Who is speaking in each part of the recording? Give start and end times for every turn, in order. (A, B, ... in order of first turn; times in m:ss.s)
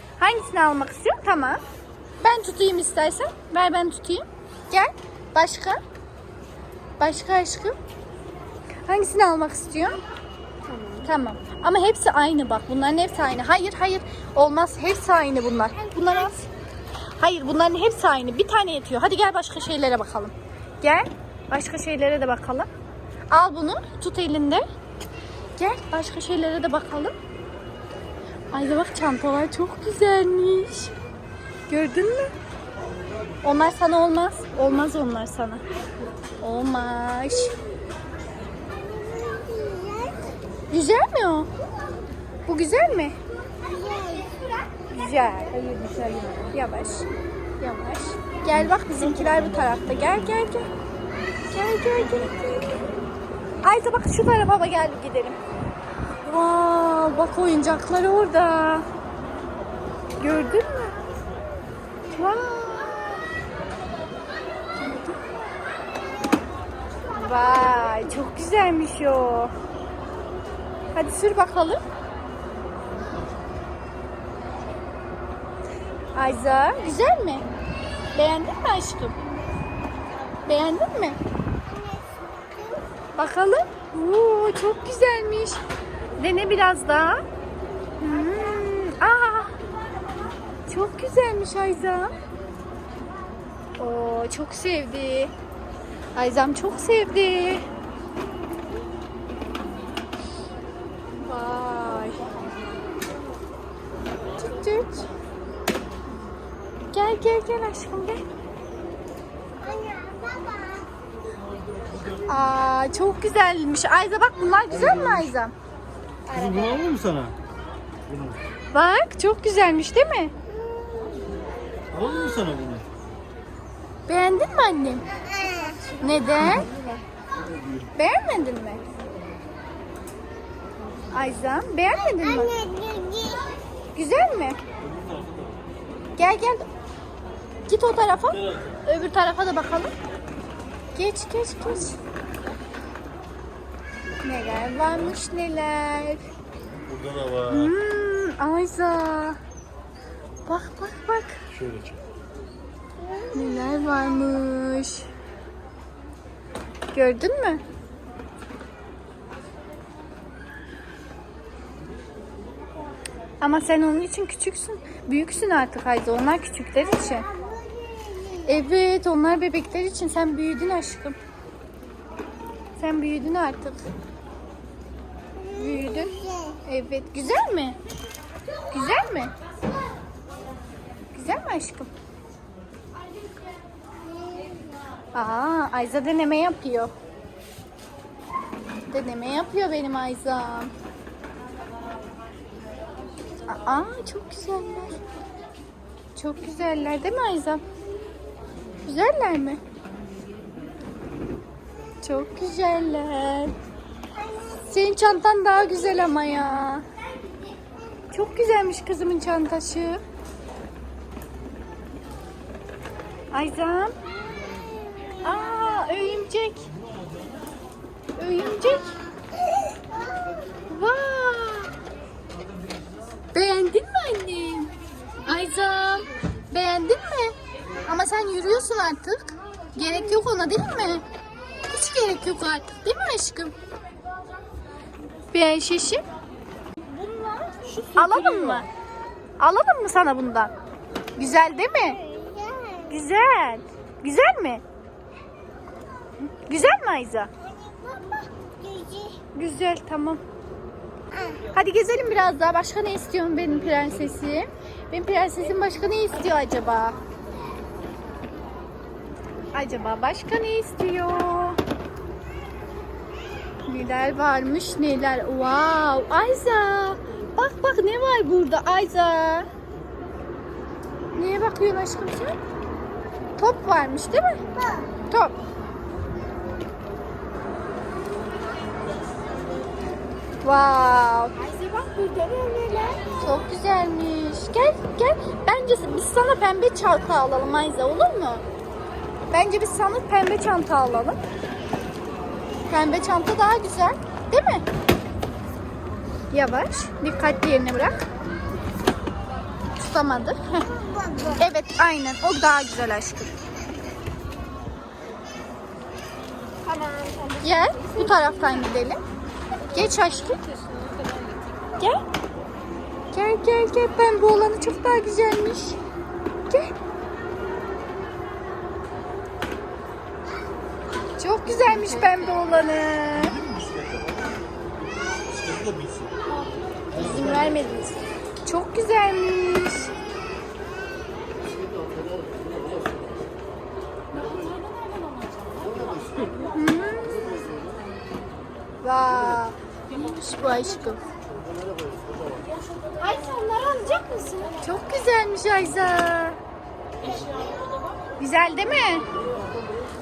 0:00.2-0:01.6 A
0:02.2-0:05.8 A
0:07.0-0:07.7 A
0:08.9-0:10.0 A
0:11.0-0:16.4 A
0:17.2-0:22.7 A
0:23.3-0:24.6 A
0:25.6-0:27.1 A
0:28.5-0:30.9 A
0:31.7-0:32.3 A
0:33.4-0:35.6 A
0:36.4-0:37.5 A
0:38.9-0:40.2 B
0:40.7-0:41.5 A
0:42.4-0:43.2 A
0:43.7-0:44.2 B
0:44.9-0:47.1 A
0:47.6-0:50.7 A
0:51.5-0:52.8 A
0:53.6-0:55.4 A
0:56.2-0:58.8 A
1:00.2-1:01.0 A
1:02.2-1:03.2 A
1:07.1-1:09.5 A
1:10.9-1:11.8 A
1:16.1-1:17.5 A
1:18.1-1:19.2 A
1:20.5-1:21.2 A
1:21.7-1:22.8 B
1:23.1-1:25.6 A
1:26.2-1:27.2 A
1:28.0-1:29.6 A
1:30.7-1:32.1 A
1:33.8-1:35.3 A
1:36.2-1:37.6 A
1:41.1-1:42.2 A
1:44.4-1:45.1 A
1:46.9-1:48.2 A
1:49.7-1:50.8 B
1:52.3-1:55.5 A
1:54.7-1:55.3 C
1:56.3-1:57.3 C
1:58.1-1:58.4 C
1:58.7-2:00.3 A
2:01.9-2:02.8 C
2:04.1-2:05.1 A
2:06.0-2:06.7 A
2:08.0-2:08.8 A
2:11.1-2:12.6 A
2:12.7-2:13.4 B
2:13.9-2:14.6 A
2:14.9-2:15.4 C
2:16.2-2:16.6 A
2:17.7-2:19.9 A
2:20.9-2:22.0 A
2:24.2-2:26.2 A
2:26.8-2:27.7 C
2:27.5-2:29.4 A
2:30.4-2:31.4 A
2:31.5-2:32.0 C
2:33.3-2:35.1 A
2:36.9-2:37.6 A
2:43.4-2:47.3 A
2:48.4-2:51.2 A
2:52.8-2:53.8 A
2:55.5-2:57.8 A
2:58.7-2:59.3 A
3:01.1-3:01.9 A
3:05.1-3:06.9 A
3:08.9-3:10.7 A
3:13.4-3:15.0 A
3:16.2-3:17.6 A
3:18.8-3:19.6 A
3:22.0-3:23.5 A
3:24.4-3:26.8 A
3:28.1-3:30.0 A
3:33.3-3:34.0 A
3:35.2-3:36.7 A
3:38.2-3:39.0 A
3:40.7-3:41.7 A
3:43.3-3:44.7 A
3:45.2-3:47.3 A
3:47.8-3:51.0 A
3:51.7-3:53.5 A
3:55.3-3:56.0 A
3:57.2-3:58.7 A
3:59.4-4:00.5 A
4:01.2-4:02.2 A
4:02.2-4:02.6 B
4:02.8-4:04.6 A
4:06.2-4:07.3 A
4:07.5-4:09.2 B
4:09.3-4:10.2 A
4:11.5-4:17.0 A
4:19.5-4:21.6 A
4:23.7-4:29.5 A
4:31.1-4:32.4 A
4:33.4-4:34.4 A
4:35.1-4:35.3 A
4:40.4-4:42.1 A
4:41.6-4:42.8 B
4:42.7-4:48.4 A
4:49.3-4:51.2 A
4:52.7-4:54.6 A
4:56.3-4:58.0 A
4:59.8-5:00.6 A
5:01.2-5:03.3 A
5:06.7-5:07.4 B
5:07.4-5:09.0 A
5:09.7-5:10.5 A
5:10.7-5:11.4 B
5:13.1-5:15.8 A
5:21.2-5:23.4 A
5:23.1-5:24.2 C
5:25.2-5:26.1 C
5:26.9-5:29.9 A
5:36.4-5:37.5 A
5:38.8-5:41.0 A
5:43.0-5:46.4 A
5:48.2-5:49.1 A